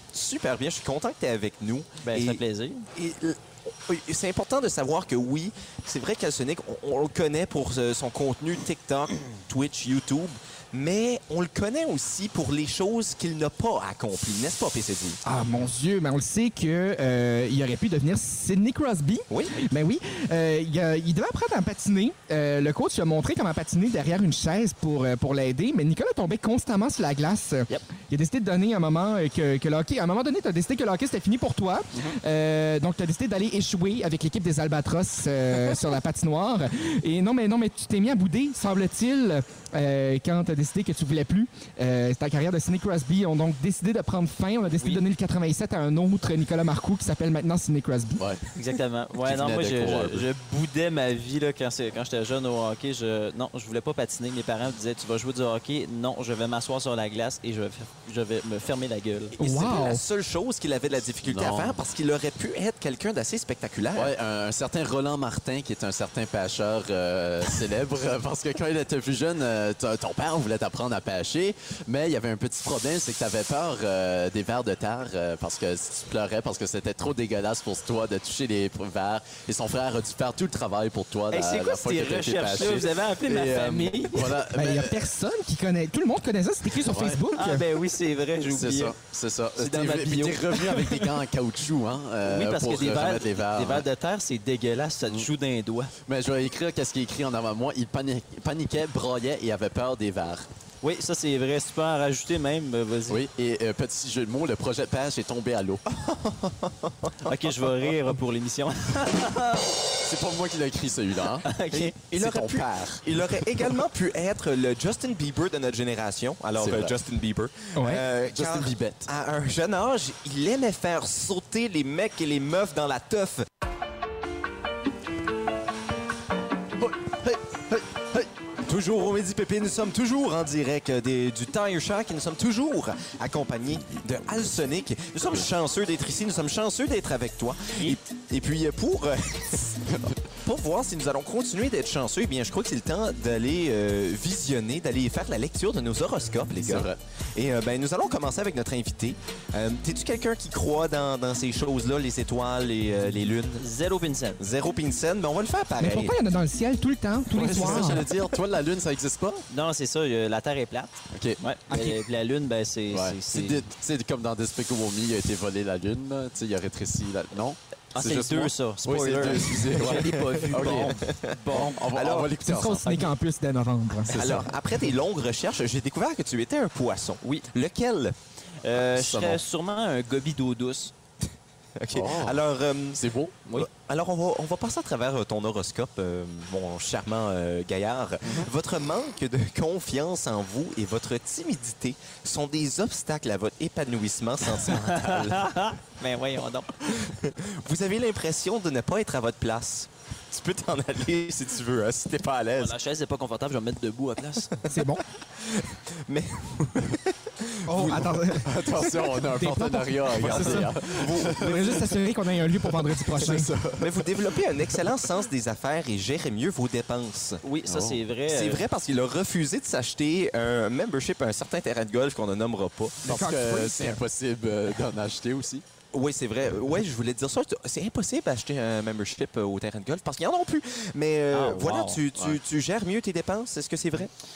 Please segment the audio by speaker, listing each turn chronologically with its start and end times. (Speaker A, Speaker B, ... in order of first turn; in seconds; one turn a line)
Speaker A: 0.1-2.4
Speaker B: 2.0-2.9
Speaker A: 2.9-15.2
Speaker C: 15.2-48.2
Speaker A: 19.3-19.6
Speaker D: 48.2-48.5
Speaker B: 48.5-59.4
Speaker D: 49.2-50.3
Speaker A: 59.4-64.2
Speaker C: 59.4-60.0
Speaker D: 61.2-61.8
Speaker D: 64.0-85.1
Speaker B: 81.3-84.4
Speaker C: 84.5-87.6
Speaker D: 86.8-87.2
Speaker B: 87.3-89.0
Speaker D: 88.5-93.9
Speaker B: 89.5-91.0
Speaker B: 92.2-95.9
Speaker D: 96.1-100.5
Speaker B: 100.8-103.3
Speaker D: 103.1-105.8
Speaker A: 105.9-107.3
Speaker B: 107.2-109.8
Speaker D: 110.0-111.5
Speaker B: 111.5-112.0
Speaker A: 111.7-123.5
Speaker D: 112.1-113.0
Speaker D: 116.6-117.0
Speaker C: 117.8-118.0
Speaker D: 118.3-119.1
Speaker D: 126.8-127.8
Speaker A: 128.6-153.6
Speaker D: 139.8-140.2
Speaker D: 146.6-147.0
Speaker B: 153.6-154.4
Speaker A: 154.4-156.2
Speaker C: 155.8-158.1
Speaker D: 157.3-159.4
Speaker B: 159.5-163.7
Speaker D: 161.1-161.9
Speaker D: 162.9-173.1
Speaker B: 167.9-172.3
Speaker A: 169.9-172.3
Speaker C: 172.4-174.2
Speaker D: 174.1-174.6
Speaker A: 174.1-178.2
Speaker B: 178.6-180.9
Speaker D: 178.8-179.4
Speaker A: 181.8-195.5
Speaker D: 181.9-182.4
Speaker D: 183.0-183.4
Speaker B: 194.6-197.1
Speaker A: 196.8-202.8
Speaker B: 202.6-204.5
Speaker C: 204.7-205.0
Speaker A: 204.8-208.3
Speaker C: 207.7-213.5
Speaker D: 207.8-212.0
Speaker A: 210.2-211.4
Speaker D: 212.7-214.8
Speaker A: 213.8-217.4
Speaker B: 217.4-218.7
Speaker D: 217.7-218.0
Speaker A: 218.3-223.2
Speaker C: 223.1-224.0
Speaker D: 223.1-225.6
Speaker A: 225.9-234.1
Speaker B: 231.3-232.0